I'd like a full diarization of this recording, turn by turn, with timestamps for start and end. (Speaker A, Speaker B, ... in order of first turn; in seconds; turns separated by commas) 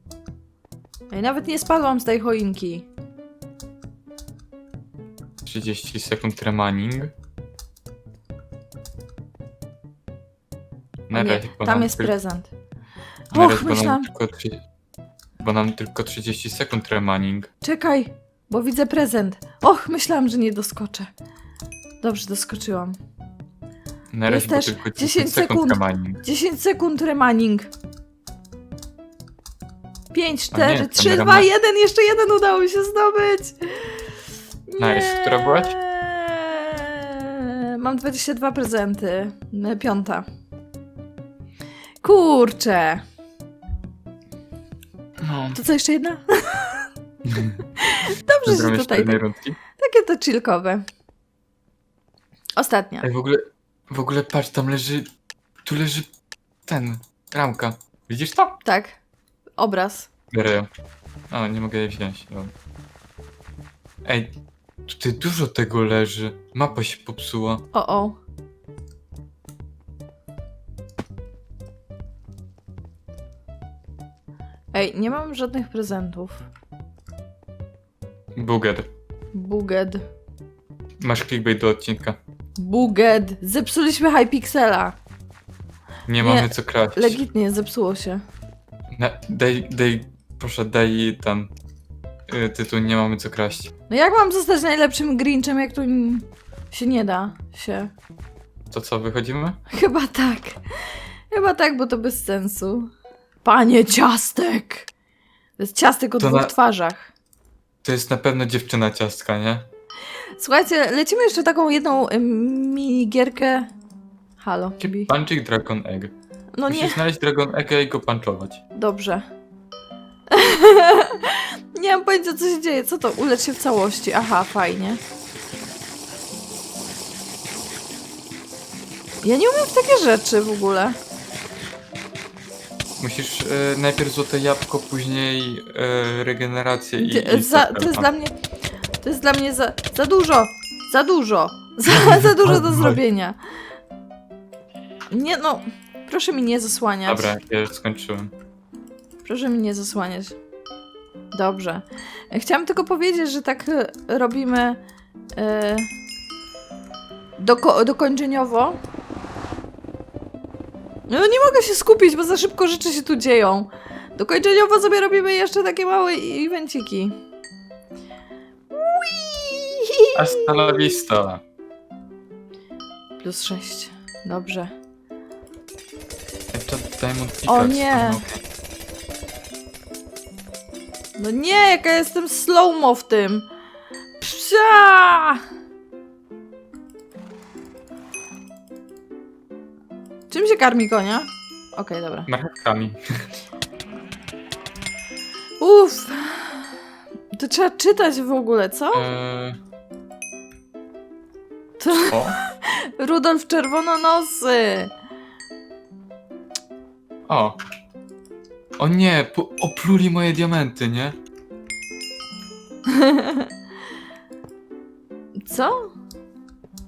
Speaker A: 1.1-2.9, Speaker B: 5.4-7.1, Speaker B: 11.1-12.1, Speaker A: 11.1-12.5, Speaker A: 13.3-14.1, Speaker B: 13.3-14.6, Speaker B: 15.4-17.5, Speaker A: 17.6-21.1, Speaker A: 22.0-22.9, Speaker B: 24.1-26.2, Speaker A: 24.3-27.7, Speaker A: 30.1-34.1, Speaker B: 30.5-31.5, Speaker A: 34.7-40.2, Speaker B: 34.8-35.8, Speaker A: 42.0-43.0, Speaker B: 45.2-45.6, Speaker A: 45.5-46.9, Speaker B: 47.2-47.6, Speaker A: 47.8-49.2, Speaker B: 48.4-49.6, Speaker A: 49.8-50.8, Speaker A: 52.6-53.1, Speaker B: 53.0-55.1, Speaker B: 55.6-56.1, Speaker B: 56.6-58.6, Speaker A: 58.6-59.0, Speaker A: 59.6-60.1, Speaker B: 60.3-60.7, Speaker B: 61.3-62.5, Speaker B: 64.0-67.6, Speaker A: 67.7-68.2, Speaker A: 74.7-76.5, Speaker B: 78.3-78.9, Speaker A: 79.3-80.0, Speaker B: 81.0-82.2, Speaker A: 82.6-85.0, Speaker B: 86.1-87.2, Speaker A: 86.2-88.2, Speaker B: 88.9-91.5, Speaker B: 92.3-93.7, Speaker A: 93.9-97.9, Speaker B: 98.7-99.6, Speaker A: 99.7-100.6, Speaker A: 101.3-102.9, Speaker A: 103.4-104.9, Speaker A: 105.6-107.1, Speaker B: 106.2-106.5, Speaker B: 107.8-109.7, Speaker A: 110.4-113.7, Speaker A: 114.4-115.1, Speaker B: 114.8-116.1, Speaker A: 116.6-117.0, Speaker B: 116.7-118.6, Speaker A: 118.8-119.2, Speaker A: 120.3-125.0, Speaker A: 129.2-130.9, Speaker B: 133.0-138.1, Speaker A: 137.0-138.3, Speaker A: 139.0-143.4, Speaker B: 141.9-143.0, Speaker A: 145.1-147.3, Speaker B: 147.1-148.3, Speaker A: 149.2-150.3, Speaker A: 151.3-154.8, Speaker A: 155.3-155.9, Speaker A: 157.4-158.8, Speaker A: 161.1-167.2, Speaker A: 168.7-170.9, Speaker B: 170.1-171.4, Speaker A: 173.2-174.7, Speaker B: 176.5-178.4, Speaker A: 177.5-178.2, Speaker A: 181.2-183.5, Speaker A: 184.2-185.4, Speaker A: 190.3-192.3, Speaker B: 192.3-193.0, Speaker A: 195.6-196.7, Speaker A: 197.3-199.1, Speaker B: 198.9-199.6, Speaker A: 201.8-204.9, Speaker B: 201.9-202.4, Speaker B: 207.3-207.6, Speaker B: 208.8-211.1, Speaker A: 212.9-213.5, Speaker A: 215.4-215.9